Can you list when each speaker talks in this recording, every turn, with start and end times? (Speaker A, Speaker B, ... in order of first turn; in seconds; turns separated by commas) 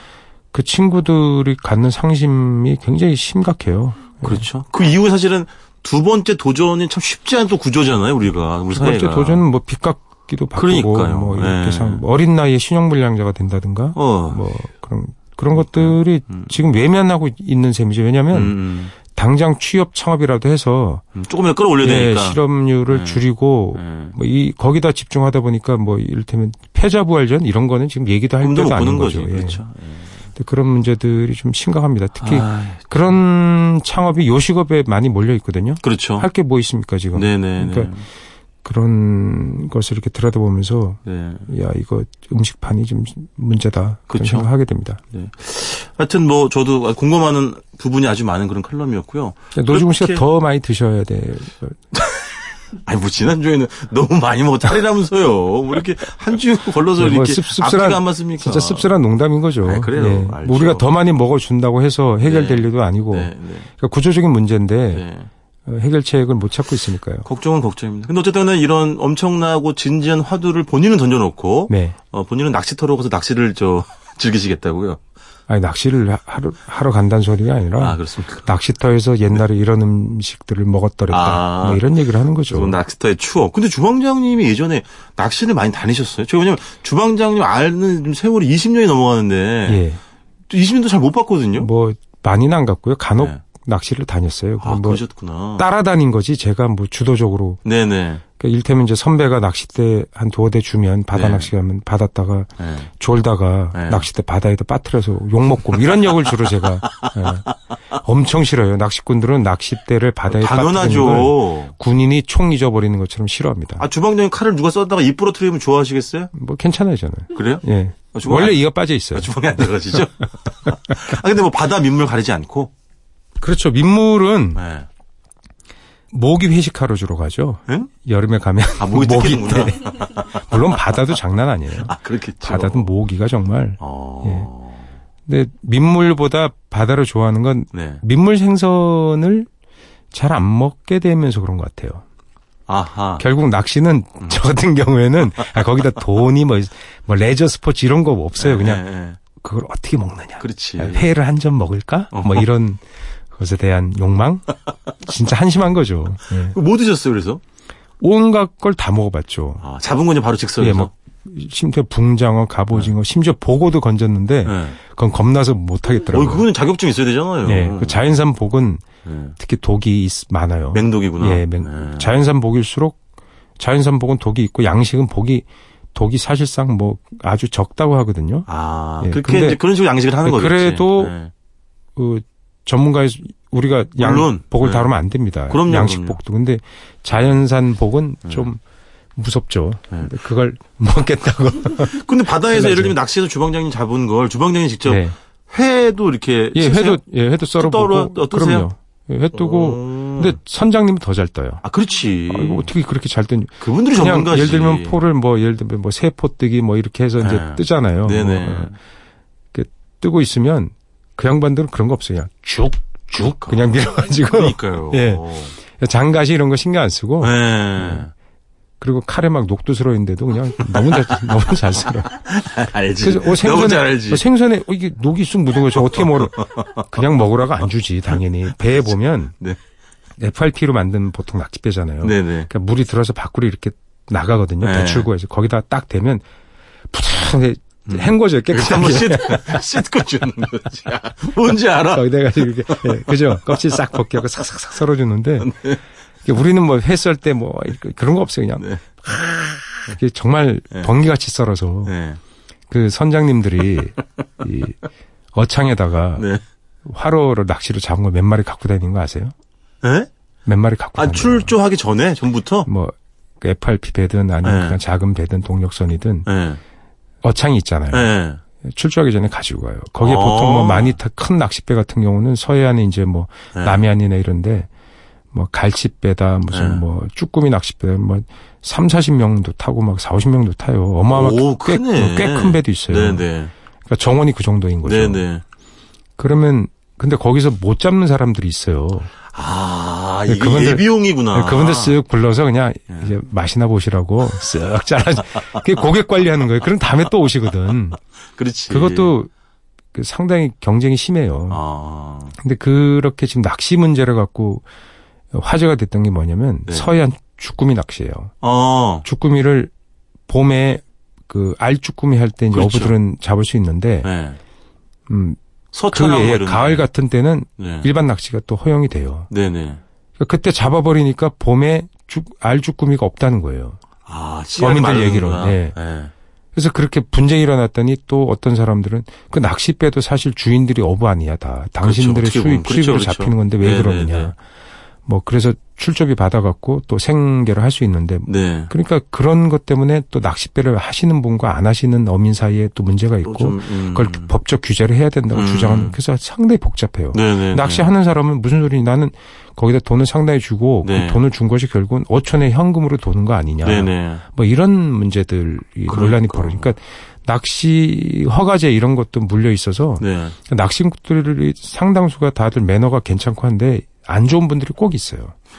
Speaker A: 0.5-4.5, Speaker B: 4.2-9.4, Speaker A: 8.7-21.0, Speaker B: 10.6-12.0, Speaker B: 13.9-14.4, Speaker B: 15.5-16.5, Speaker B: 18.3-18.9, Speaker B: 21.1-23.2, Speaker A: 21.8-29.6, Speaker B: 23.8-24.1, Speaker B: 28.4-30.1, Speaker A: 30.4-37.9, Speaker B: 32.2-33.2, Speaker B: 35.8-36.3, Speaker B: 37.1-38.0, Speaker A: 38.6-45.0, Speaker B: 41.0-41.5, Speaker B: 44.1-44.5, Speaker B: 45.1-50.2, Speaker A: 49.5-51.8, Speaker B: 51.9-58.9, Speaker A: 57.0-65.0, Speaker B: 59.6-60.9, Speaker B: 62.2-63.7, Speaker B: 64.9-65.3, Speaker A: 65.7-67.2, Speaker B: 67.2-75.0, Speaker A: 71.7-72.0, Speaker A: 75.5-82.8, Speaker B: 77.8-78.5, Speaker B: 81.1-81.8, Speaker B: 82.5-89.8, Speaker A: 89.7-90.0, Speaker B: 90.5-91.7, Speaker A: 91.6-95.0, Speaker B: 94.6-95.7, Speaker A: 95.6-97.6, Speaker B: 97.6-98.2, Speaker A: 98.4-107.5, Speaker B: 101.1-101.5, Speaker B: 102.6-102.9, Speaker B: 103.7-104.1, Speaker B: 107.0-107.5, Speaker A: 108.0-113.8, Speaker B: 110.3-111.7, Speaker B: 113.8-116.3, Speaker A: 116.3-120.0, Speaker B: 117.3-122.7, Speaker A: 123.4-124.6, Speaker B: 124.5-124.9, Speaker A: 126.1-134.5, Speaker B: 128.8-130.8, Speaker B: 131.8-132.9, Speaker B: 133.8-134.9, Speaker A: 135.3-139.5, Speaker B: 137.7-138.0, Speaker A: 140.1-142.0, Speaker B: 142.7-143.3, Speaker A: 143.2-148.8, Speaker B: 148.4-149.2, Speaker A: 149.4-156.5, Speaker B: 150.4-151.1, Speaker B: 152.1-152.5, Speaker B: 156.4-157.4, Speaker A: 158.0-159.6, Speaker B: 159.6-160.9, Speaker A: 160.6-166.4, Speaker B: 164.4-164.8, Speaker B: 166.1-168.0, Speaker A: 167.4-168.8, Speaker B: 169.0-169.3, Speaker A: 169.4-173.0, Speaker B: 170.7-172.1, Speaker A: 173.6-178.5, Speaker B: 178.5-181.3, Speaker A: 179.0-179.6, Speaker A: 180.2-181.1, Speaker A: 181.9-188.6, Speaker B: 184.0-184.9, Speaker B: 185.5-186.2, Speaker A: 189.2-192.0, Speaker B: 191.8-197.0, Speaker A: 192.5-192.9, Speaker A: 194.8-195.2, Speaker A: 196.5-201.6, Speaker B: 197.6-198.7, Speaker B: 199.3-200.4, Speaker B: 201.6-202.7, Speaker A: 202.3-208.7, Speaker B: 203.6-205.0, Speaker B: 207.2-208.8, Speaker A: 209.5-218.0, Speaker B: 213.2-215.5, Speaker B: 217.2-218.1, Speaker A: 218.8-222.1, Speaker B: 220.6-221.2, Speaker B: 221.8-224.2, Speaker A: 223.0-229.3, Speaker B: 225.7-226.8, Speaker A: 230.2-236.2, Speaker B: 232.0-232.5, Speaker B: 234.6-235.1, Speaker A: 236.9-239.7, Speaker B: 237.9-243.8, Speaker A: 241.5-245.6, Speaker B: 245.4-245.8, Speaker A: 246.2-248.7, Speaker B: 248.6-249.9, Speaker A: 249.8-251.9, Speaker B: 251.8-252.2, Speaker A: 252.7-254.8, Speaker A: 255.3-256.2, Speaker A: 256.8-259.3, Speaker B: 259.8-260.1, Speaker A: 260.4-261.5, Speaker B: 260.9-262.7, Speaker A: 262.7-266.3, Speaker B: 264.4-264.8, Speaker B: 266.2-266.6, Speaker A: 267.2-268.1, Speaker B: 267.9-268.4, Speaker A: 268.6-274.7, Speaker B: 270.0-270.9, Speaker B: 273.5-273.9, Speaker A: 275.3-283.2, Speaker B: 276.5-276.8, Speaker B: 281.1-283.5, Speaker A: 283.9-285.2, Speaker B: 284.8-285.4, Speaker A: 286.2-289.1, Speaker B: 289.3-291.9, Speaker A: 290.3-298.0, Speaker B: 298.4-299.1, Speaker A: 298.7-299.3, Speaker A: 299.9-301.6, Speaker B: 301.5-302.3, Speaker A: 302.4-304.6, Speaker A: 305.3-308.3, Speaker B: 308.4-309.1, Speaker A: 309.0-309.7, Speaker A: 310.3-314.1, Speaker B: 312.5-312.9, Speaker B: 314.0-314.4, Speaker A: 315.1-315.4, Speaker B: 315.7-316.8, Speaker A: 315.9-319.3, Speaker B: 317.6-317.9, Speaker B: 319.3-319.8, Speaker A: 320.2-323.8, Speaker B: 324.1-326.1, Speaker A: 324.6-325.8, Speaker A: 326.6-334.4, Speaker B: 331.8-334.3, Speaker A: 335.1-365.3, Speaker B: 338.2-338.7, Speaker B: 343.2-344.3, Speaker B: 345.3-345.9, Speaker B: 347.1-347.9, Speaker B: 350.8-351.2, Speaker B: 353.6-354.2, Speaker B: 355.9-356.7, Speaker B: 360.0-360.4